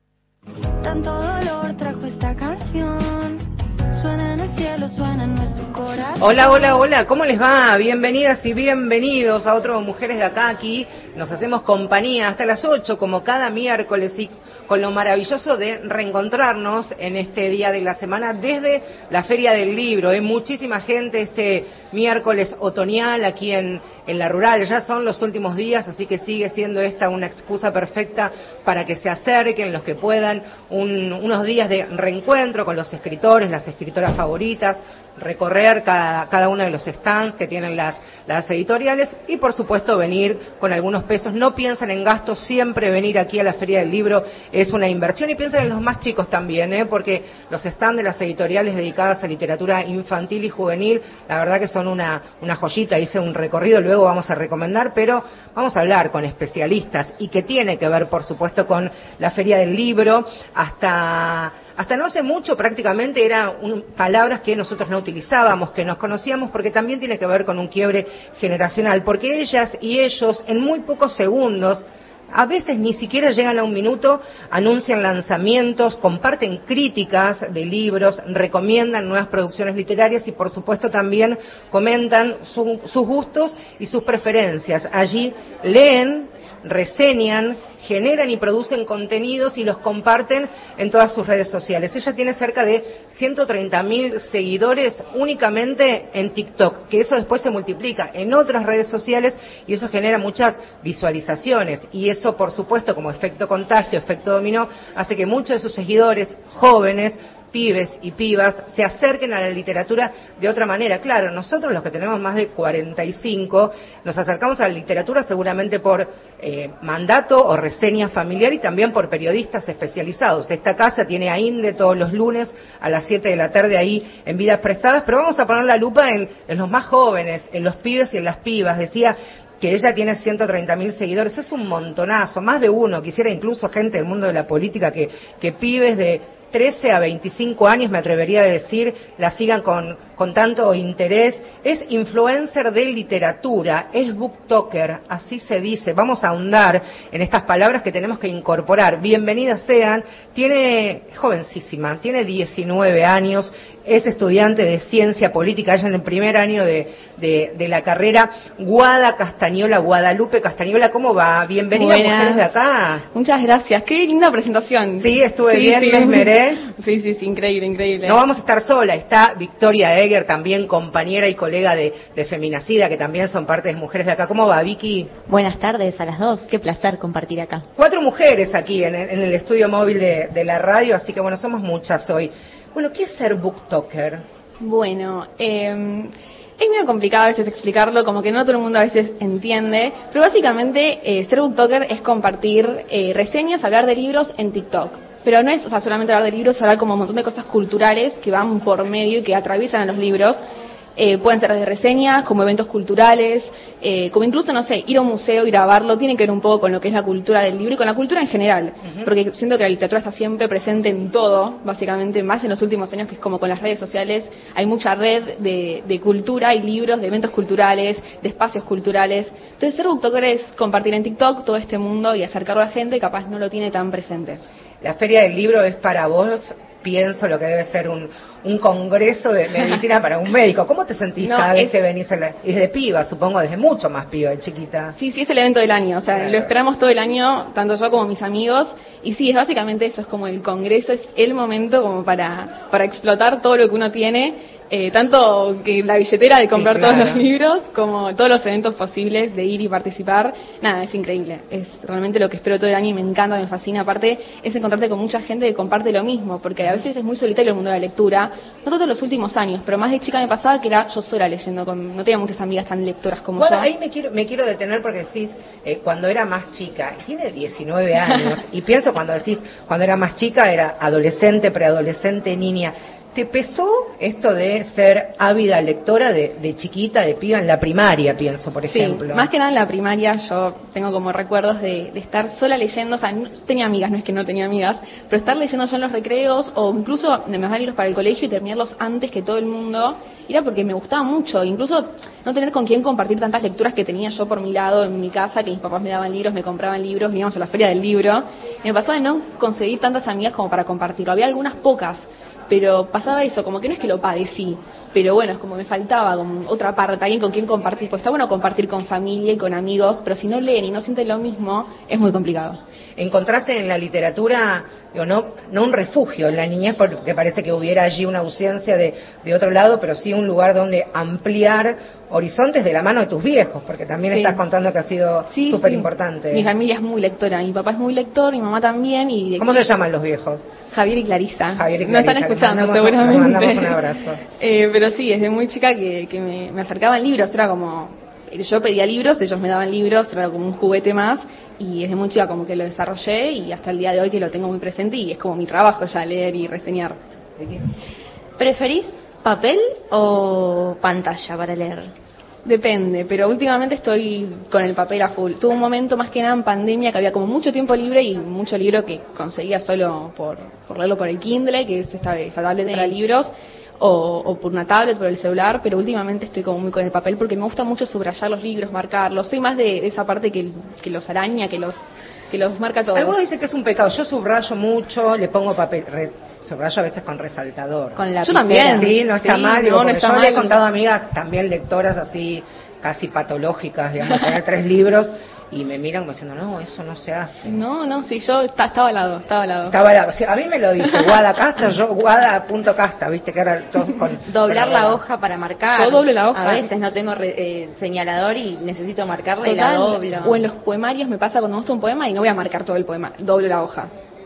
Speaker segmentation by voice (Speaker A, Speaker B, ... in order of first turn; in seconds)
Speaker A: 0.8-6.8
Speaker B: 6.2-163.1, 165.0-166.6, 168.0-175.1, 177.8-184.2, 208.8-209.1, 224.8-235.0, 236.1-236.5, 246.5-247.3, 263.4-279.3, 313.0-326.5, 329.4-330.4, 331.5-334.2, 372.9-378.1, 378.7-387.6, 389.7-395.0
Speaker C: 161.7-162.5, 163.1-168.2, 184.6-200.4, 201.0-224.4, 231.2-231.7, 235.0-263.7, 278.7-312.6, 324.1-324.4, 325.3-329.7, 330.7-333.8, 334.4-347.0, 352.4-371.8, 372.3-373.2, 378.0-380.6, 387.4-389.8, 395.7-396.7, 399.4-403.9
Speaker D: 175.3-177.7, 348.4-351.9, 362.6-362.9, 378.2-378.9, 394.3-400.4